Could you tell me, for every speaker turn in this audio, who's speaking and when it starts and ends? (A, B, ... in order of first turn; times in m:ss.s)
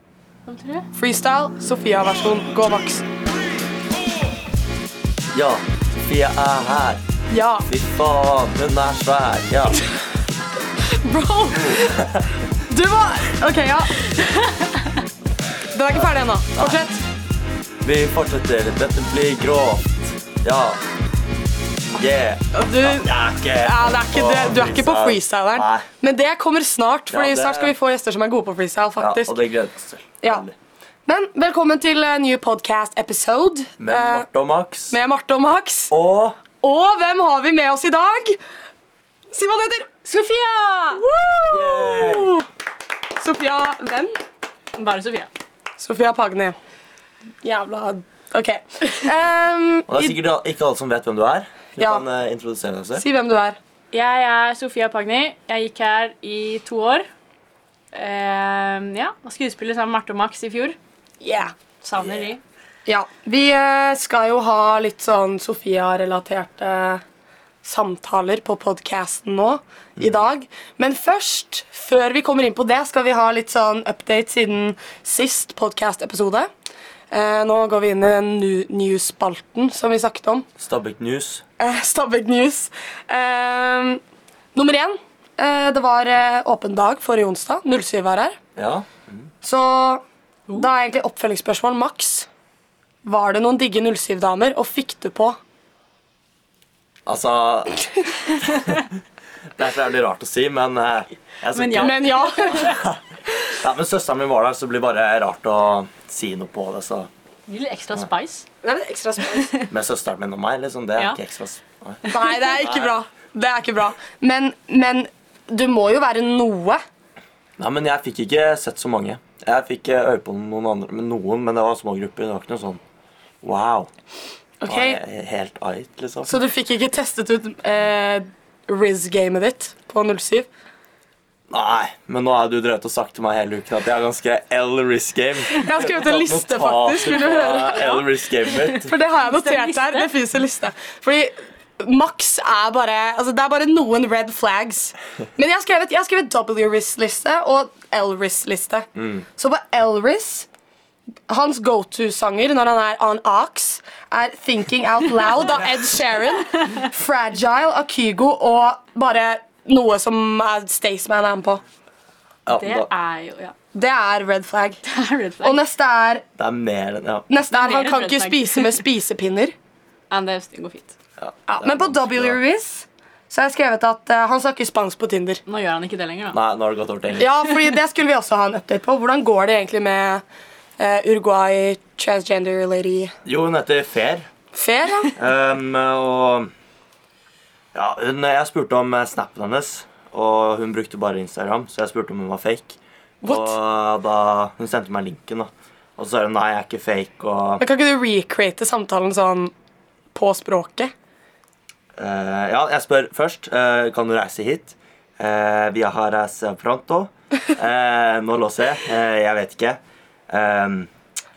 0:00.4-0:00.9 A
0:00.9-0:03.0 B
0:05.3-0:07.0 C
0:07.3-0:07.7 B
0:07.6-0:09.8 C
0:10.8-0:12.0 B
0:11.8-0:12.2 C
0:12.6-0:14.1 B
0:13.9-0:15.0 A
0:15.7-0:17.0 B
0:16.5-0:16.8 C
0:17.8-0:20.8 C
0:21.9-0:25.8 C
0:22.5-0:29.3 B
0:27.1-0:27.7 C
0:29.0-0:30.5 C
0:31.0-0:34.2 B
0:33.8-0:35.0 C
0:34.9-0:35.9 B
0:35.9-0:36.4 C
0:36.6-0:38.4 B
0:39.3-0:40.0 B
0:40.0-0:41.0 A
0:40.9-0:42.4 B
0:41.5-0:42.4 C
0:43.2-0:44.1 B
0:44.7-0:45.3 A
0:45.8-0:46.5 B
0:47.4-0:50.2 B
0:49.9-0:53.0 C
0:51.8-0:52.0 B
0:53.0-0:53.6 B
0:53.9-0:57.0 A
0:57.9-1:00.8 A
1:01.2-1:01.5 B
1:01.8-1:02.4 A
1:02.0-1:02.3 C
1:02.8-1:07.0 B
1:07.6-1:16.5 B
1:17.1-1:20.5 B
1:20.6-1:21.4 C
1:21.6-1:24.0 B
1:24.5-1:28.4 B
1:28.6-1:29.2 C
1:29.4-1:32.3 B
1:33.0-1:35.4 B
1:37.0-1:38.7 C
1:39.6-1:43.0 C
1:41.5-1:42.8 A
1:41.8-1:42.8 B
1:43.5-1:47.1 C
1:47.5-1:48.4 A
1:48.6-1:49.5 B
1:49.3-1:49.7 A
1:49.7-1:52.0 C
1:52.0-1:56.8 B
1:52.6-1:52.9 C
1:57.6-2:02.8 C
2:03.4-2:03.9 C
2:04.6-2:05.0 B
2:04.7-2:06.4 C
2:06.2-2:10.5 B
2:11.5-2:18.9 C
2:15.5-2:17.9 B
2:17.3-2:20.1 A
2:18.8-2:30.5 B
2:31.3-2:41.6 B
2:42.4-2:42.9 C
2:42.5-2:43.5 A
2:43.7-2:44.8 B
2:44.8-2:45.6 A
2:45.4-2:46.2 B
2:46.4-2:47.3 C
2:47.3-2:49.5 B
2:47.5-2:48.8 A
2:50.1-2:50.9 A
2:51.2-2:52.4 C
2:51.5-2:55.4 B
2:55.5-2:56.4 A
2:56.3-2:57.3 C
2:57.2-3:00.2 B
3:00.8-3:03.1 B
3:03.2-3:04.2 C
3:04.5-3:05.1 B
3:05.1-3:06.5 C
3:07.7-3:17.6 C
3:13.2-3:13.5 B
3:17.6-3:19.5 B
3:20.1-3:20.9 B
3:22.0-3:29.8 C
3:30.3-3:30.9 C